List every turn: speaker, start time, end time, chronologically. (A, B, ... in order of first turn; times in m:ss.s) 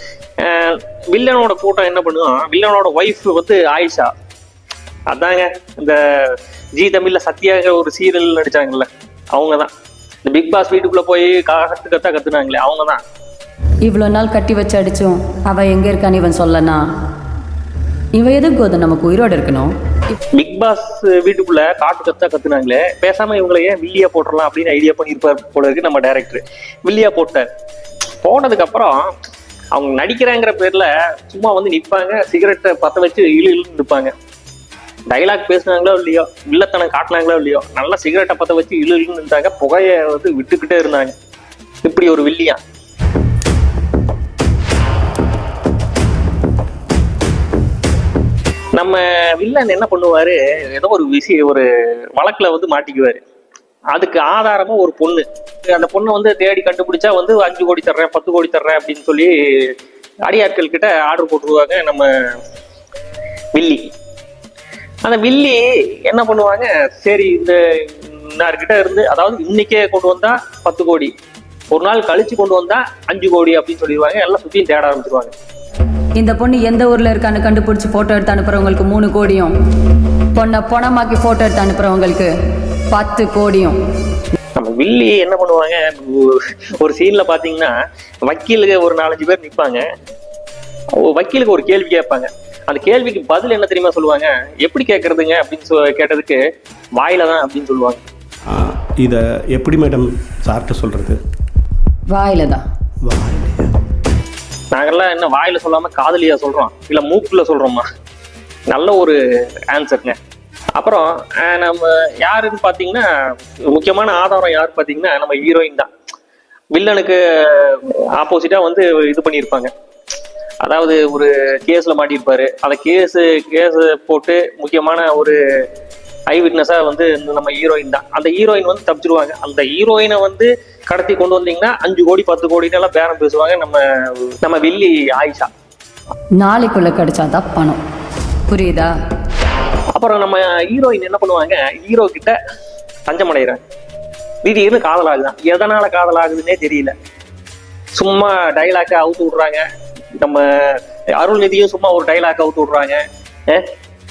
0:00.4-0:04.1 A
0:05.1-0:09.7 A
0:10.2-0:13.0 A
0:13.9-0:16.8 B
0:18.2-0:19.7 B
0:20.4-0:27.5 A
0:28.2-0:29.1 A
0:29.7-0:34.1 A
0:35.1-0:41.1 A
0:41.8-0:42.6 A
0:48.8-0:53.2 A
0:53.9-0:59.7 A
1:00.3-1:02.1 A
1:03.6-1:03.9 A
1:05.0-1:11.1 A
1:11.7-1:15.4 A
1:16.2-1:19.5 B
1:20.4-1:22.3 B
1:22.9-1:23.8 B
1:24.6-1:27.7 A
1:28.3-1:29.8 A
1:31.0-1:36.4 A
1:37.0-1:38.0 A
1:38.5-1:41.2 C
1:42.1-1:42.6 B
1:43.1-1:43.4 C
1:44.7-1:47.9 A
1:48.7-1:49.2 A
1:49.7-1:50.2 A
1:50.8-1:53.1 A
1:53.7-1:55.9 A
1:56.8-1:59.7 A
2:00.6-2:05.4 A
2:06.3-2:15.5 A
2:16.4-2:17.8 B
2:18.5-2:18.9 B
2:20.0-2:22.4 A
2:23.1-2:23.6 A
2:24.4-2:26.9 A
2:28.0-2:29.6 A
2:30.2-2:33.7 A